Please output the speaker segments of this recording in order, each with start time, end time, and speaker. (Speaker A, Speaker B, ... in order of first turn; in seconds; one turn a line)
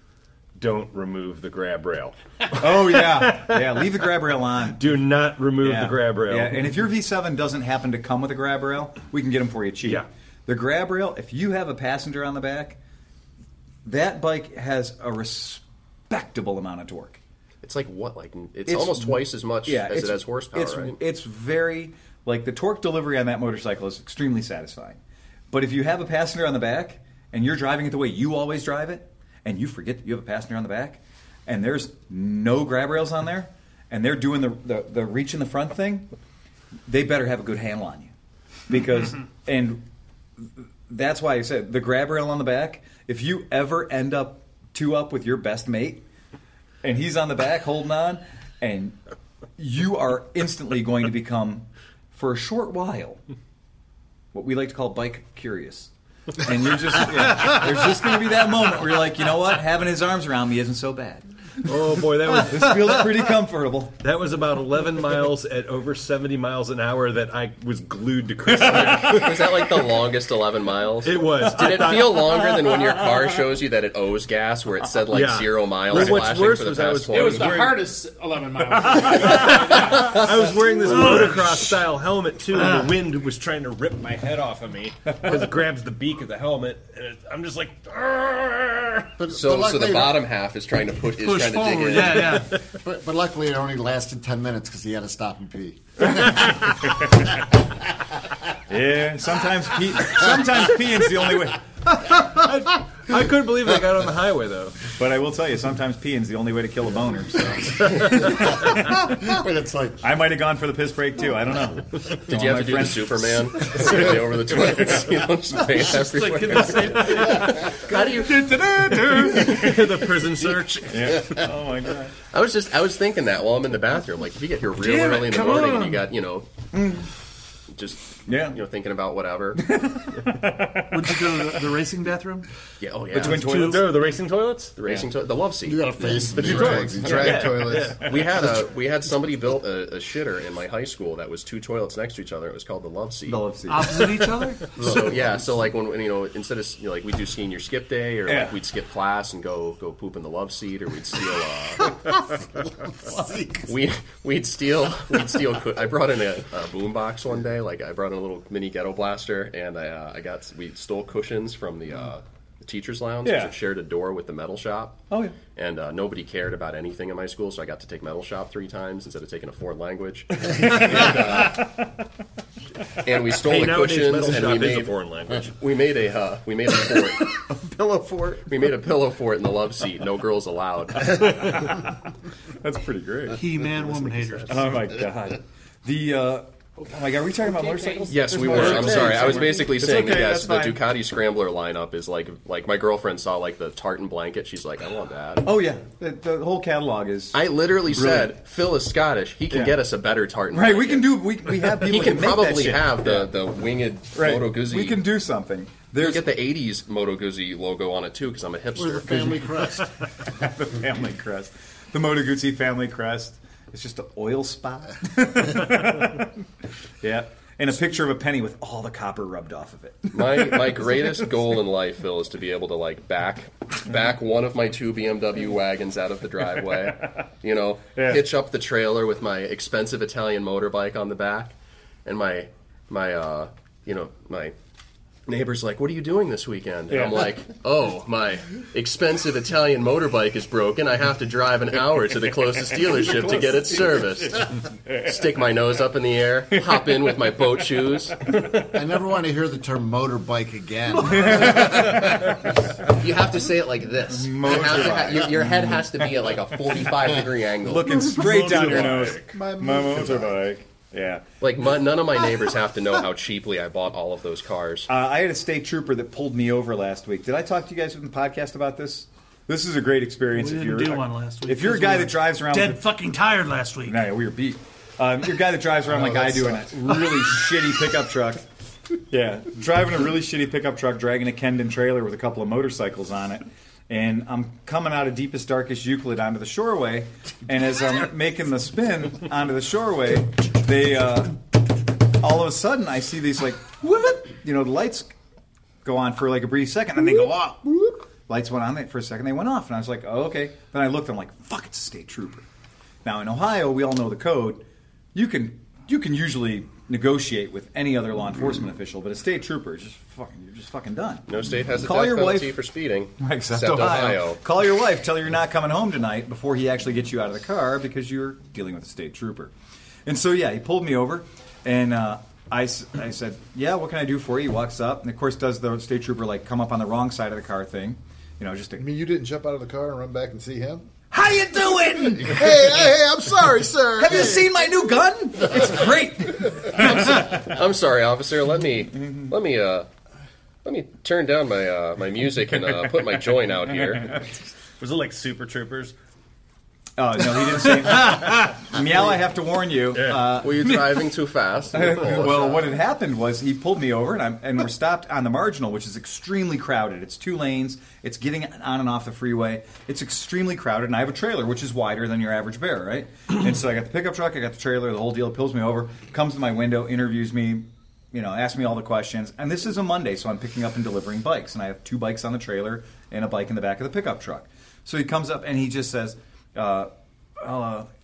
Speaker A: 0.6-3.8
Speaker B: 2.6-4.8
Speaker A: 4.7-6.7
Speaker B: 5.6-12.8
Speaker B: 13.8-17.2
Speaker C: 17.6-21.0
Speaker B: 18.7-25.0
Speaker B: 25.5-36.1
Speaker B: 36.9-38.1
Speaker B: 38.7-39.8
Speaker B: 40.4-46.0
Speaker B: 46.8-49.0
Speaker B: 49.6-53.2
Speaker B: 54.3-64.0
Speaker A: 61.6-63.1
Speaker A: 64.0-69.8
Speaker B: 68.5-69.3
Speaker C: 68.6-77.7
Speaker A: 71.0-72.8
Speaker B: 72.2-73.2
Speaker A: 75.1-77.8
Speaker D: 77.1-80.3
Speaker A: 79.2-89.1
Speaker E: 80.9-81.5
Speaker F: 89.2-90.3
Speaker C: 89.3-92.5
Speaker E: 91.2-92.6
Speaker F: 92.7-96.8
Speaker B: 96.0-96.3
Speaker B: 98.7-101.9
Speaker A: 102.1-104.8
Speaker B: 105.0-109.1
Speaker F: 107.8-110.0
Speaker B: 110.0-113.9
Speaker C: 112.2-118.4
Speaker E: 116.0-119.7
Speaker A: 116.5-121.5
Speaker B: 118.5-119.7
Speaker B: 120.9-122.1
Speaker C: 122.3-126.5
Speaker E: 124.8-126.0
Speaker B: 126.7-127.1
Speaker C: 127.7-129.7
Speaker B: 128.3-128.6
Speaker B: 129.6-131.6
Speaker E: 130.9-132.5
Speaker C: 132.8-133.9
Speaker B: 133.1-133.9
Speaker E: 133.2-133.8
Speaker A: 133.6-135.1
Speaker C: 134.8-136.0
Speaker F: 135.7-137.4
Speaker A: 136.2-138.5
Speaker G: 136.3-138.2
Speaker C: 136.7-143.4
Speaker B: 143.3-144.4
Speaker E: 143.7-144.8
Speaker C: 144.7-152.0
Speaker F: 144.8-145.6
Speaker B: 148.3-148.6
Speaker F: 152.6-153.8
Speaker C: 153.7-171.7
Speaker B: 163.2-163.5
Speaker B: 165.1-165.4
Speaker C: 173.0-177.4
Speaker A: 173.3-175.5
Speaker C: 178.4-181.7
Speaker B: 182.5-183.4
Speaker E: 183.3-184.8
Speaker B: 184.5-190.8
Speaker D: 187.4-188.8
Speaker C: 188.1-195.5
Speaker E: 188.9-189.2
Speaker B: 195.4-197.4
Speaker C: 197.3-205.0
Speaker B: 197.9-198.3
Speaker B: 199.5-199.8
Speaker B: 200.5-203.3
Speaker B: 204.1-206.3
Speaker C: 206.0-209.8
Speaker F: 208.8-209.9
Speaker B: 210.3-216.3
Speaker B: 217.0-220.9
Speaker C: 220.1-234.6
Speaker B: 227.9-228.2
Speaker C: 235.3-248.2
Speaker B: 236.9-237.2
Speaker F: 248.6-252.1
Speaker B: 251.0-252.3
Speaker C: 251.4-252.3
Speaker C: 252.8-259.2
Speaker B: 254.1-255.9
Speaker B: 257.6-261.2
Speaker G: 258.2-260.4
Speaker C: 261.4-264.9
Speaker B: 264.9-272.9
Speaker E: 270.3-274.1
Speaker B: 273.9-278.5
Speaker G: 275.9-277.0
Speaker B: 279.1-291.6
Speaker B: 292.2-295.1
Speaker B: 295.8-302.4
Speaker B: 303.0-304.6
Speaker B: 305.1-311.3
Speaker C: 311.3-314.4
Speaker B: 311.8-312.6
Speaker B: 313.2-319.5
Speaker B: 320.1-328.9
Speaker G: 328.8-330.9
Speaker B: 331.1-332.4
Speaker G: 332.1-334.8
Speaker B: 334.0-337.2
Speaker C: 336.6-339.9
Speaker C: 340.6-344.2
Speaker A: 344.8-345.9
Speaker B: 347.0-350.8
Speaker A: 349.9-350.4
Speaker C: 350.4-352.7
Speaker B: 351.7-377.9